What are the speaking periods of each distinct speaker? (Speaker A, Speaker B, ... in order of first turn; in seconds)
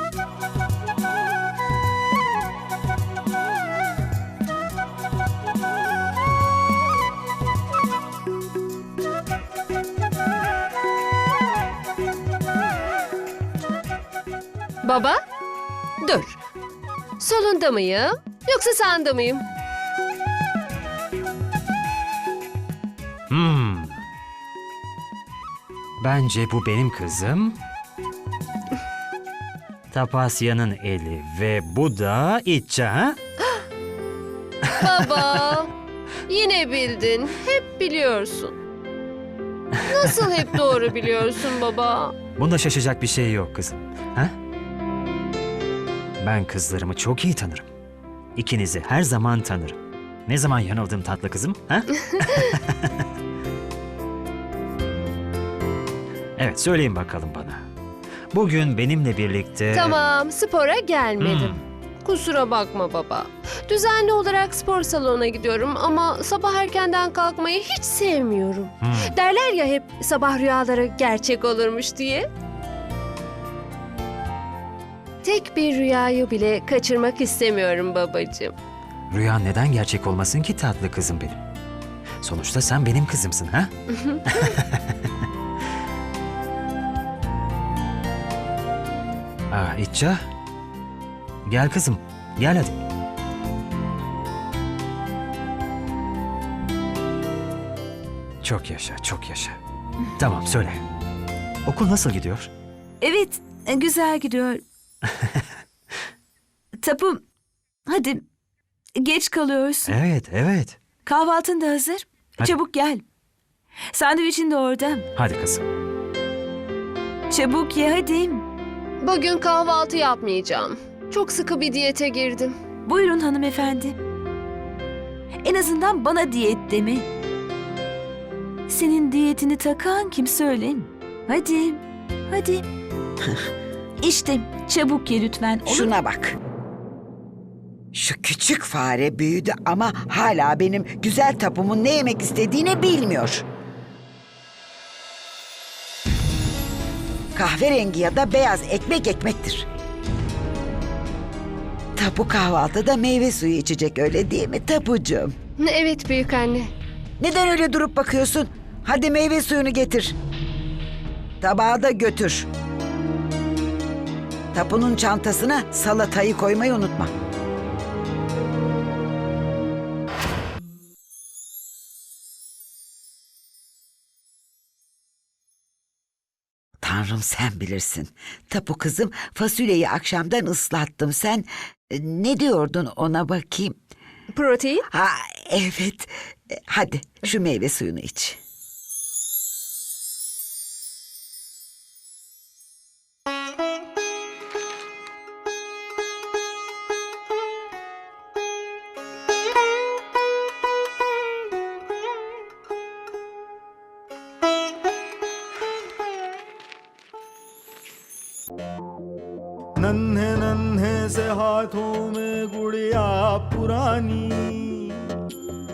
Speaker A: 14.8-15.2, 16.0-16.4, 17.2-19.4, 34.7-35.7, 36.2-38.5, 39.9-42.1, 52.1-52.4, 59.7-72.2, 75.2-78.5, 83.9-84.4, 119.0-122.5, 155.6-156.7, 184.3-184.9
Speaker B: 23.3-24.0, 26.0-27.6, 29.9-33.2, 34.9-35.2, 42.4-44.3, 46.2-47.7, 48.4-53.0, 56.4-57.6, 58.3-60.0, 61.2-61.5, 68.8-69.1, 79.1-81.4, 82.2-83.7, 84.2-84.9, 89.5-90.2, 91.5-92.8, 98.4-99.6, 100.2-100.8, 101.6-102.5, 109.9-110.8, 115.2-115.6
Speaker C: 103.0-104.6, 106.8-107.2, 107.9-108.2, 109.0-110.0, 111.0-113.0, 113.9-115.0, 117.3-118.5, 122.8-124.0, 125.4-127.1, 128.7-132.6, 134.0-135.9
Speaker D: 135.6-136.4, 137.9-143.4, 147.3-149.7, 152.0-155.3, 157.2-160.1, 161.4-162.5, 164.5-167.1, 176.8-183.8, 184.9-188.4
Speaker E: 209.8-215.1